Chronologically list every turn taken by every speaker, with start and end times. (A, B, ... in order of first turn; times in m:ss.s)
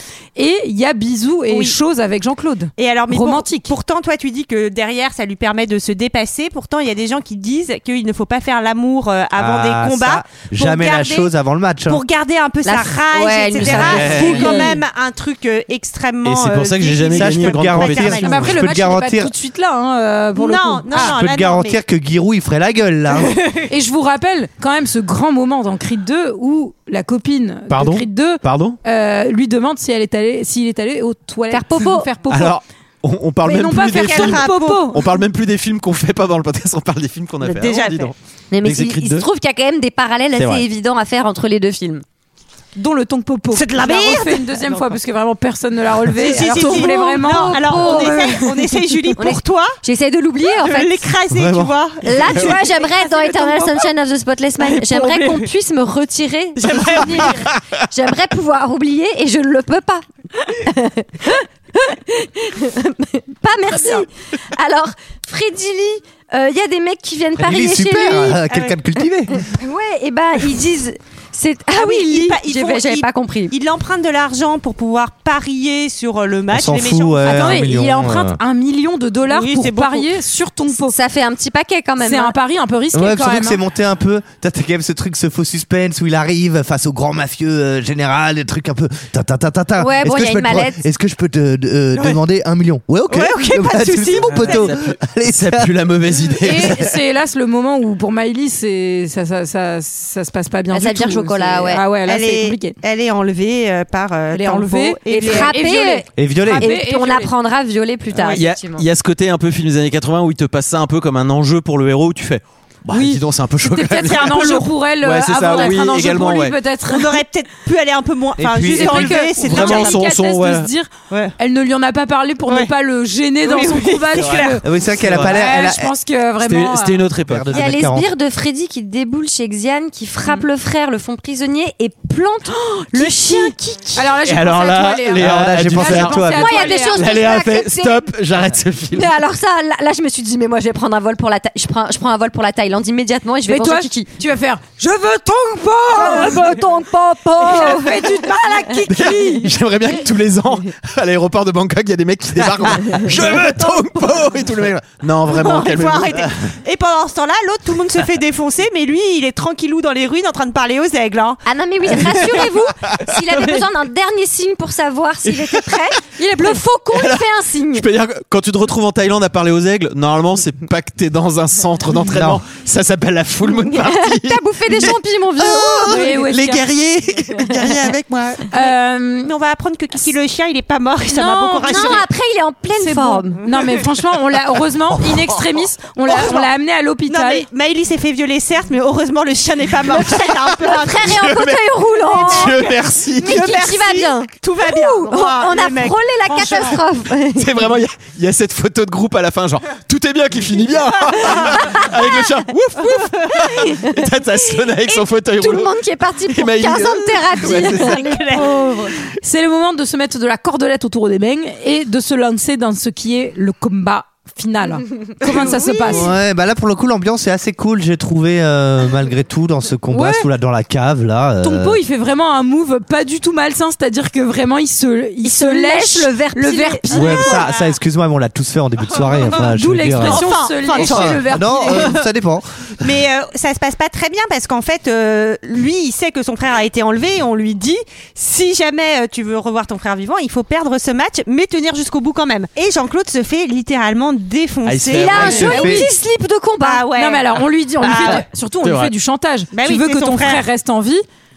0:00.4-0:03.7 A
0:01.5-0:01.8 B
0:02.8-0:11.3 B
0:09.4-0:12.0 C
0:11.9-0:18.5 B
0:12.6-0:14.8 D
0:13.6-0:14.6 E
0:16.2-0:18.5 E
0:17.1-0:19.3 C
0:18.2-0:21.1 A
0:20.4-0:21.8 B
0:20.9-0:23.4 C
0:23.3-0:23.6 B
0:23.7-0:32.6 A
0:27.7-0:28.8 E
0:31.5-0:32.1 D
0:32.3-0:39.2 E
0:33.4-0:35.0 A
0:33.9-0:34.8 B
0:37.4-0:38.1 B
0:38.5-0:42.0 D
0:40.3-0:40.6 E
0:42.8-0:48.6 A
0:43.5-0:44.8 B
0:46.2-0:49.8 B
0:46.2-0:48.4 D
0:49.2-0:51.1 D
0:50.4-0:53.8 B
0:51.3-0:52.6 E
0:52.0-1:00.0 D
0:54.6-0:55.5 B
0:56.6-0:57.4 B
0:57.4-0:57.8 E
1:00.6-1:08.4 D
1:07.4-1:09.5 C
1:08.5-1:08.8 B
1:09.5-1:13.5 D
1:11.7-1:17.5 B
1:16.5-1:18.4 C
1:17.2-1:20.9 A
1:19.3-1:20.1 B
1:20.7-1:22.3 D
1:22.0-1:23.6 A
1:22.9-1:35.7 C
1:29.8-1:30.8 D
1:31.9-1:32.2 B
1:33.1-1:34.7 B
1:34.2-1:36.9 E
1:36.4-1:42.8 A
1:40.7-1:41.8 D
1:42.0-1:45.5 B
1:44.3-1:47.3 A
1:45.1-1:48.8 D
1:46.2-1:46.7 C
1:48.1-1:56.6 E
1:52.9-1:57.2 A
1:54.1-1:54.7 B
1:56.9-2:00.0 B
1:58.4-1:59.2 C
1:58.6-2:04.6 A
1:59.4-2:00.7 E
2:03.4-2:04.6 B
2:04.2-2:05.3 E
2:04.6-2:05.9 C
2:05.2-2:07.0 A
2:06.4-2:07.6 E
2:07.3-2:08.1 C
2:07.5-2:14.1 D
2:12.8-2:17.0 A
2:14.2-2:19.1 E
2:15.2-2:16.6 C
2:16.2-2:18.0 D
2:18.9-2:24.1 D
2:23.4-2:26.6 A
2:25.9-2:28.3 D
2:27.4-2:29.5 A
2:28.9-2:36.3 E
2:32.9-2:34.0 D
2:35.3-2:42.5 B
2:41.4-2:47.8 D
2:45.2-2:45.8 E
2:46.9-2:58.4 E
2:52.0-2:52.4 C
2:53.6-2:56.2 D
2:55.8-2:56.7 A
2:57.5-2:57.8 D
2:58.5-2:59.3 A
2:59.2-3:02.1 B
3:01.2-3:03.4 D
3:01.2-3:02.0 A
3:02.8-3:07.4 A
3:06.1-3:06.5 B
3:07.1-3:11.2 B
3:10.1-3:12.7 D
3:11.0-3:13.5 E
3:12.1-3:16.8 B
3:13.2-3:17.7 D
3:17.3-3:28.0 E
3:21.0-3:21.6 B
3:21.6-3:22.0 D
3:22.9-3:23.3 B
3:23.5-3:24.0 D
3:25.4-3:28.9 D
3:27.3-3:28.9 B
3:29.2-3:36.1 A
3:35.9-3:41.8 C
3:39.9-3:40.3 A
3:41.4-3:47.2 A
3:45.2-3:47.4 D
3:46.9-3:52.8 C
3:47.0-3:47.7 B
3:49.2-3:51.9 A
3:50.0-3:52.0 B
3:52.8-4:05.4 B
4:04.6-4:05.6 E
4:04.9-4:06.8 D
4:05.3-4:05.9 A
4:05.4-4:05.8 C
4:06.6-4:07.2 B
4:06.9-4:11.0 A
4:07.8-4:08.2 B
4:07.9-4:08.9 E
4:09.5-4:10.4 B